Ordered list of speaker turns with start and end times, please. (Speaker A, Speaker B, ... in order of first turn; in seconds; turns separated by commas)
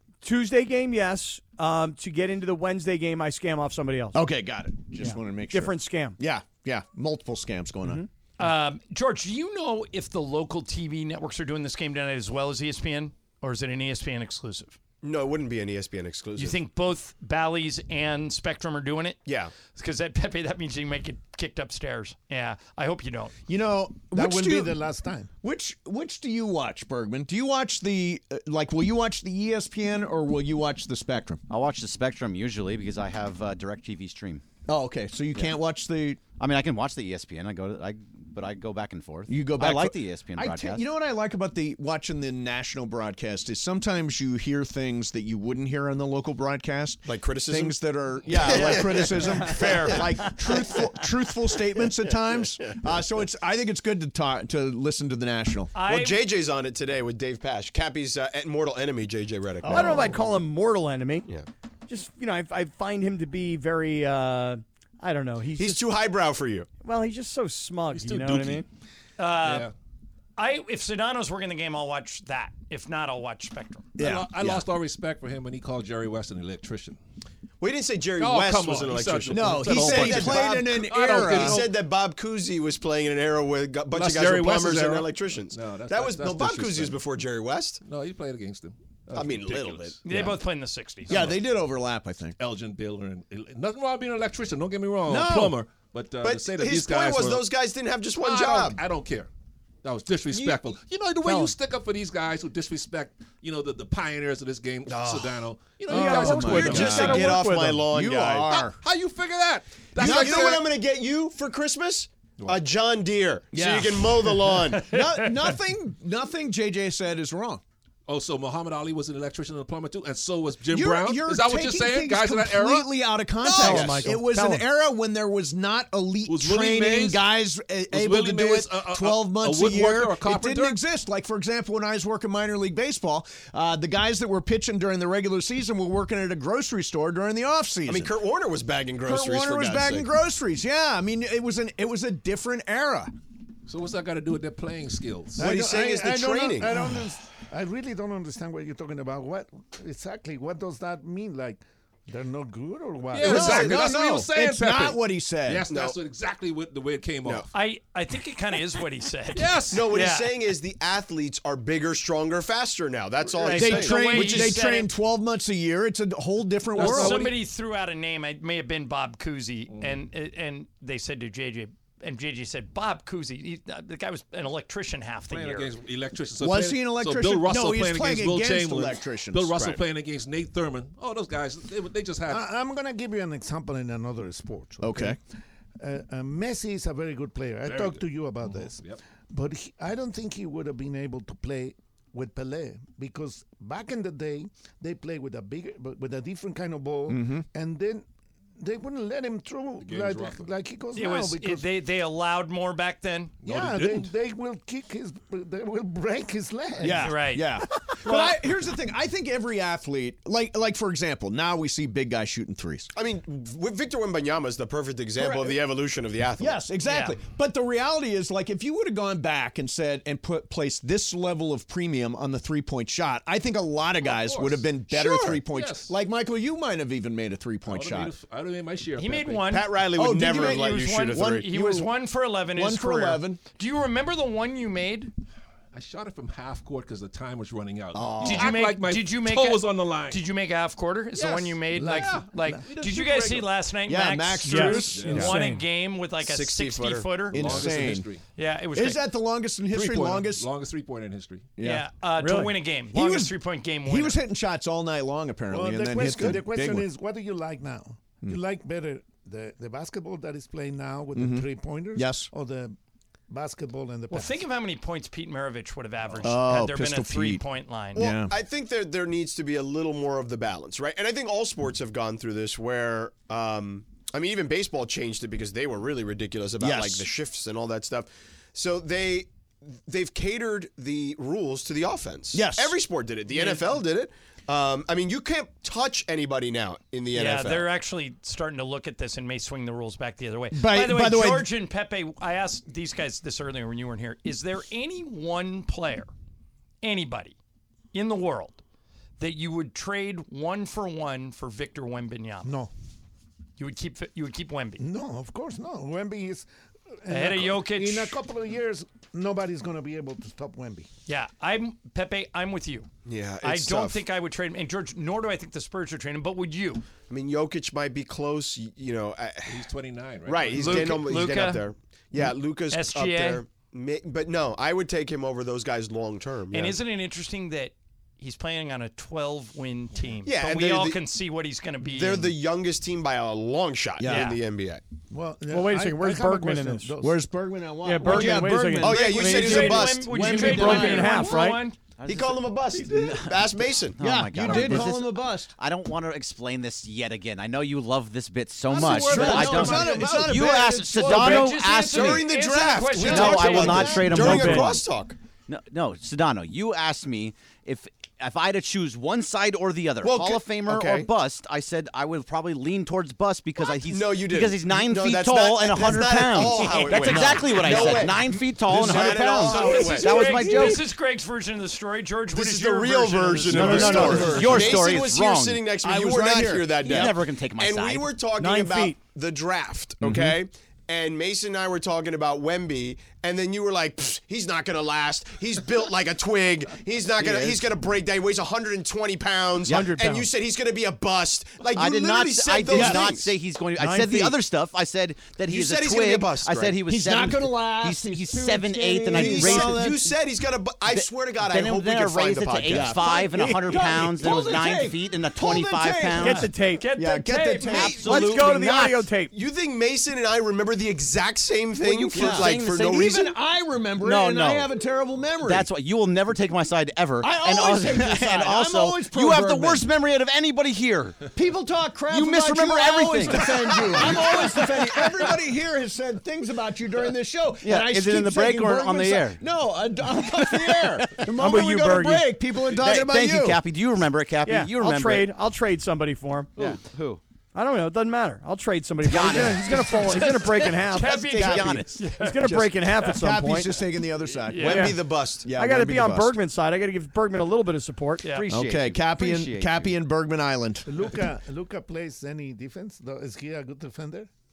Speaker A: 0.2-4.2, Speaker B: 4.1-8.0, Speaker A: 5.0-6.2, Speaker C: 8.4-14.8, Speaker D: 15.0-16.6, Speaker C: 16.4-23.3, Speaker D: 19.2-19.5, Speaker B: 23.5-24.8, Speaker E: 24.1-25.3, Speaker B: 25.4-31.4, Speaker F: 31.5-34.4, Speaker B: 34.7-36.2, Speaker F: 36.4-40.9, Speaker B: 39.3-55.7, Speaker D: 47.1-51.0, Speaker D: 51.8-52.8, Speaker C: 55.8-56.2, Speaker D: 55.8-60.2, Speaker B: 59.6-60.1, Speaker A: 59.6-61.3, Speaker A: 61.9-65.8, Speaker D: 65.6-66.7, Speaker A: 66.8-68.7, Speaker B: 68.0-68.6, Speaker C: 69.2-69.7, Speaker G: 69.4-69.7, Speaker C: 70.4-73.9, Speaker B: 74.0-74.7, Speaker G: 74.0-77.0, Speaker D: 77.6-87.8, Speaker G: 78.2-81.7, Speaker B: 79.3-81.7, Speaker G: 83.9-87.0, Speaker G: 87.8-90.0, Speaker D: 89.1-90.0, Speaker B: 89.2-90.3, Speaker C: 90.0-91.3, Speaker G: 91.1-91.4, Speaker B: 91.1-92.4, Speaker G: 92.4-97.5, Speaker B: 95.1-95.6, Speaker D: 96.2-98.8, Speaker G: 98.2-99.3, Speaker G: 99.8-107.2, Speaker A: 101.2-101.5, Speaker D: 104.9-105.5, Speaker A: 105.9-107.9, Speaker B: 105.9-108.8, Speaker D: 106.0-108.6, Speaker G: 108.5-110.8, Speaker D: 110.0-114.9, Speaker B: 110.0-110.7, Speaker B: 113.5-117.6, Speaker C: 114.8-115.5, Speaker G: 118.1-123.2, Speaker B: 120.7-138.2, Speaker A: 123.4-124.7, Speaker G: 126.3-127.3, Speaker G: 127.9-130.8, Speaker D: 137.9-140.1, Speaker B: 139.0-143.1, Speaker G: 143.7-145.4, Speaker E: 145.4-153.8, Speaker D: 145.4-146.8, Speaker B: 145.5-146.8, Speaker G: 153.1-157.5, Speaker B: 153.2-155.7, Speaker D: 155.7-156.0, Speaker C: 157.5-160.3, Speaker G: 159.3-159.9, Speaker D: 159.7-164.7, Speaker B: 163.4-167.3, Speaker C: 163.4-164.9, Speaker G: 166.8-167.3, Speaker C: 166.8-175.7, Speaker G: 169.7-170.0, Speaker G: 175.3-182.4, Speaker B: 176.4-179.8, Speaker E: 182.3-185.2, Speaker B: 184.8-185.2, Speaker E: 185.8-198.1, Speaker G: 187.7-189.0, Speaker B: 197.1-197.5, Speaker E: 198.6-201.7, Speaker G: 199.8-200.5, Speaker C: 201.0-203.3, Speaker G: 203.4-204.1, Speaker E: 203.4-207.3, Speaker B: 206.8-212.9, Speaker C: 206.9-208.4, Speaker D: 212.9-216.6, Speaker B: 215.2-215.6, Speaker B: 216.4-228.1, Speaker C: 216.8-217.2, Speaker G: 224.0-225.9, Speaker G: 227.7-229.6, Speaker C: 229.0-235.1, Speaker D: 229.5-231.4, Speaker B: 229.9-231.9, Speaker B: 232.5-233.4, Speaker G: 235.7-240.2, Speaker B: 237.9-238.6, Speaker C: 238.2-247.7, Speaker G: 241.1-243.4, Speaker E: 241.7-242.7, Speaker B: 241.8-242.2, Speaker B: 243.8-245.3, Speaker A: 244.4-245.7, Speaker G: 244.9-245.3, Speaker D: 246.2-247.5, Speaker B: 247.3-248.1, Speaker G: 247.3-248.2, Speaker C: 248.4-249.1, Speaker B: 248.7-250.5, Speaker G: 249.7-251.5, Speaker B: 251.6-251.9, Speaker C: 251.6-254.2, Speaker A: 252.2-252.6, Speaker B: 252.9-256.9, Speaker E: 255.5-262.8, Speaker D: 256.0-256.4, Speaker B: 261.1-262.3, Speaker E: 263.3-264.4, Speaker C: 264.1-268.1, Speaker B: 266.2-267.4, Speaker B: 267.9-268.4, Speaker D: 267.9-287.7, Speaker B: 276.6-277.1, Speaker B: 282.3-282.8, Speaker C: 283.3-283.8, Speaker C: 287.1-296.1, Speaker B: 290.5-291.5, Speaker C: 296.8-297.4, Speaker C: 297.9-298.6, Speaker C: 299.2-302.5, Speaker E: 302.4-302.7, Speaker C: 303.6-304.8, Speaker E: 304.8-306.5, Speaker E: 307.0-310.9, Speaker C: 307.1-308.2, Speaker C: 311.1-312.9, Speaker D: 313.1-314.1, Speaker C: 313.4-316.9, Speaker D: 317.1-319.7, Speaker G: 319.5-321.1, Speaker D: 320.2-326.8, Speaker C: 320.6-321.7, Speaker C: 322.7-323.4, Speaker C: 326.5-332.3, Speaker D: 330.2-331.0, Speaker D: 331.8-334.8, Speaker B: 334.0-334.3, Speaker C: 334.1-334.4, Speaker E: 335.1-337.2, Speaker A: 335.5-337.0, Speaker B: 337.0-341.2, Speaker A: 337.8-341.7, Speaker C: 338.1-338.4, Speaker D: 338.2-341.2, Speaker C: 339.0-341.8, Speaker F: 342.0-352.3, Speaker D: 342.0-344.8, Speaker B: 344.0-345.5, Speaker G: 348.7-350.4, Speaker B: 348.8-351.4, Speaker C: 351.0-354.4, Speaker D: 351.1-355.2, Speaker F: 353.0-354.8, Speaker B: 353.6-354.1, Speaker A: 354.1-354.8, Speaker F: 355.5-370.8, Speaker D: 360.0-361.1, Speaker D: 363.7-370.8, Speaker B: 366.6-368.1, Speaker C: 368.8-374.6, Speaker D: 372.3-393.4, Speaker A: 373.5-374.4, Speaker B: 373.5-374.8, Speaker F: 373.6-375.6, Speaker B: 375.8-377.1, Speaker F: 376.9-378.1, Speaker A: 378.4-379.0, Speaker B: 380.0-380.4, Speaker B: 387.2-387.6, Speaker A: 389.7-390.3, Speaker F: 391.8-399.9, Speaker B: 392.7-393.1, Speaker A: 393.8-394.4, Speaker D: 395.5-396.8, Speaker B: 396.9-400.2, Speaker D: 399.1-403.2, Speaker F: 400.9-406.5, Speaker B: 402.7-408.4, Speaker A: 406.2-406.9, Speaker C: 406.2-408.3, Speaker F: 407.6-409.0, Speaker A: 408.1-409.3, Speaker D: 408.5-413.4, Speaker F: 411.8-413.2, Speaker B: 411.8-415.7, Speaker F: 414.0-414.7, Speaker F: 415.4-421.2, Speaker B: 417.2-419.9, Speaker B: 421.3-433.6, Speaker F: 422.1-425.1, Speaker F: 427.6-429.4, Speaker A: 431.3-432.4, Speaker F: 432.8-435.3, Speaker A: 434.4-436.5, Speaker F: 436.6-437.2, Speaker A: 437.5-443.8, Speaker F: 439.1-440.4, Speaker C: 439.8-442.6, Speaker F: 440.9-442.0, Speaker B: 441.4-441.8, Speaker B: 442.5-446.4, Speaker C: 444.5-444.9, Speaker D: 444.6-445.5, Speaker A: 444.6-448.3, Speaker F: 448.3-449.9, Speaker B: 448.5-450.9, Speaker E: 450.9-454.3